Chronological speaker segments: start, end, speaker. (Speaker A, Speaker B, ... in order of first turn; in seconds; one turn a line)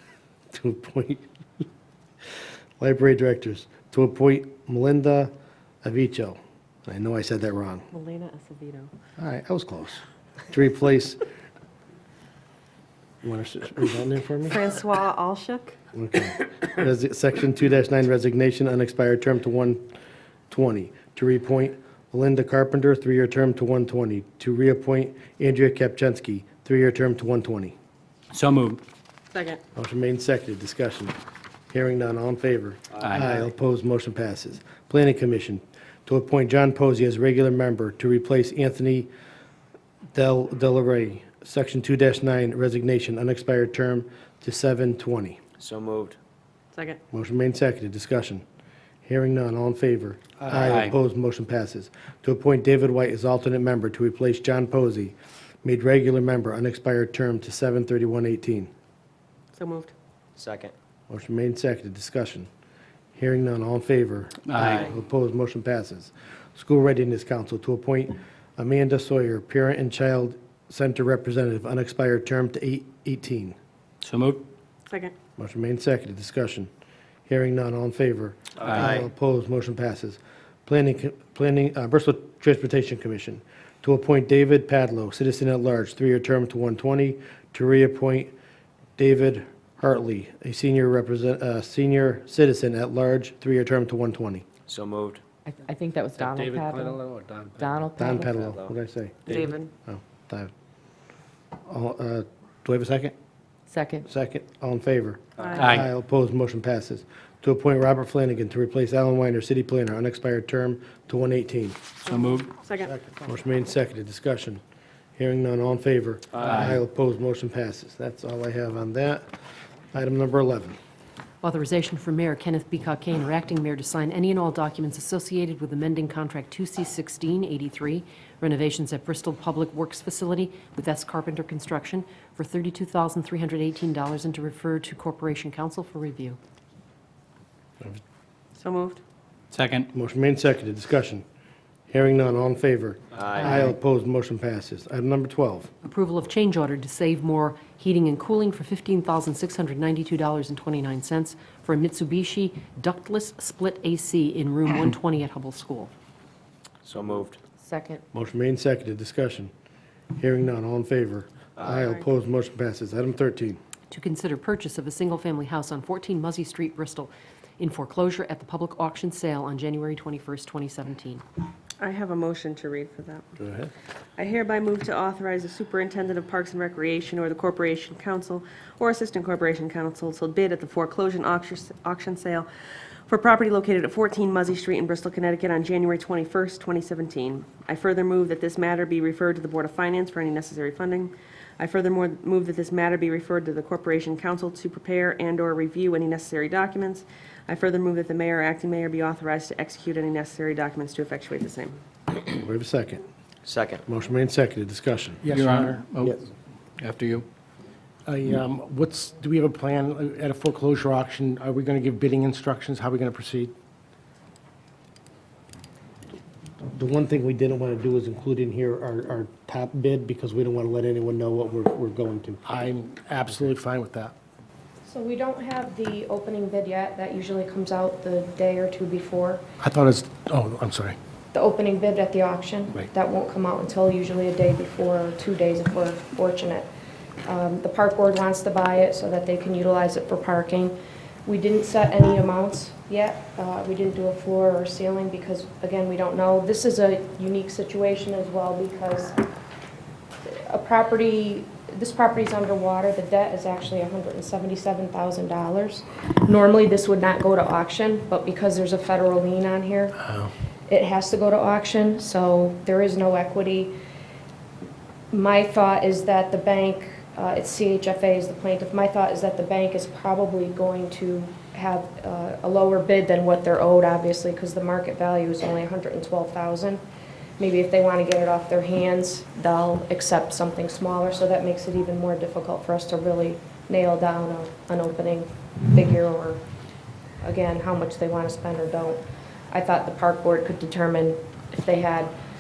Speaker A: 0.5-1.3
Speaker A: 2.8-5.3
Speaker A: 5.8-7.9
Speaker B: 7.9-8.9
Speaker A: 9.2-11.2
Speaker A: 13.2-14.6
Speaker B: 14.5-15.8
Speaker A: 15.9-19.8
Speaker A: 20.5-27.8
Speaker C: 28.3-28.8
Speaker B: 29.3-29.6
Speaker A: 29.8-31.1
Speaker A: 31.7-39.1
Speaker C: 33.0-33.3
Speaker A: 40.1-45.4
Speaker D: 45.6-46.2
Speaker B: 46.7-47.0
Speaker A: 47.1-48.4
Speaker A: 49.0-58.7
Speaker C: 50.5-50.9
Speaker B: 59.5-59.9
Speaker D: 60.4-60.7
Speaker A: 61.1-62.5
Speaker A: 63.1-73.6
Speaker C: 64.5-64.9
Speaker C: 74.0-74.5
Speaker A: 75.4-76.7
Speaker A: 77.3-88.3
Speaker C: 78.7-79.0
Speaker D: 78.7-79.0
Speaker A: 89.0-94.5
Speaker D: 94.7-95.2
Speaker E: 95.5-97.0
Speaker F: 96.2-97.5
Speaker E: 97.6-98.4
Speaker A: 98.0-100.5
Speaker D: 98.5-98.7
Speaker E: 99.3-99.7
Speaker A: 101.7-103.1
Speaker E: 103.7-104.1
Speaker A: 104.1-111.8
Speaker B: 105.4-105.7
Speaker C: 105.6-105.9
Speaker B: 112.1-112.9
Speaker C: 112.1-112.5
Speaker A: 112.9-114.6
Speaker A: 115.2-119.3
Speaker C: 116.4-116.8
Speaker A: 119.9-120.8
Speaker G: 121.4-136.4
Speaker B: 138.6-139.0
Speaker C: 139.5-139.9
Speaker A: 139.9-141.2
Speaker A: 141.9-145.7
Speaker D: 143.2-143.5
Speaker G: 145.8-155.9
Speaker D: 156.8-157.4
Speaker E: 157.6-158.0
Speaker A: 158.1-159.5
Speaker A: 160.2-163.6
Speaker B: 161.7-162.0
Speaker G: 163.9-171.2
Speaker B: 171.8-173.2
Speaker A: 173.4-173.7
Speaker B: 174.2-182.5
Speaker B: 183.1-201.8
Speaker A: 202.4-203.0
Speaker D: 203.4-203.8
Speaker A: 203.9-205.2
Speaker F: 205.2-205.9
Speaker C: 205.3-206.2
Speaker C: 206.8-207.3
Speaker F: 208.1-213.5
Speaker A: 216.7-222.7
Speaker F: 222.5-224.1
Speaker H: 224.8-229.4
Speaker F: 229.6-231.0
Speaker H: 231.3-236.7
Speaker H: 237.2-249.2
Speaker H: 250.3-260.0
Speaker H: 260.7-263.7
Speaker H: 265.1-276.8
Speaker H: 277.4-286.4
Speaker H: 287.2-292.1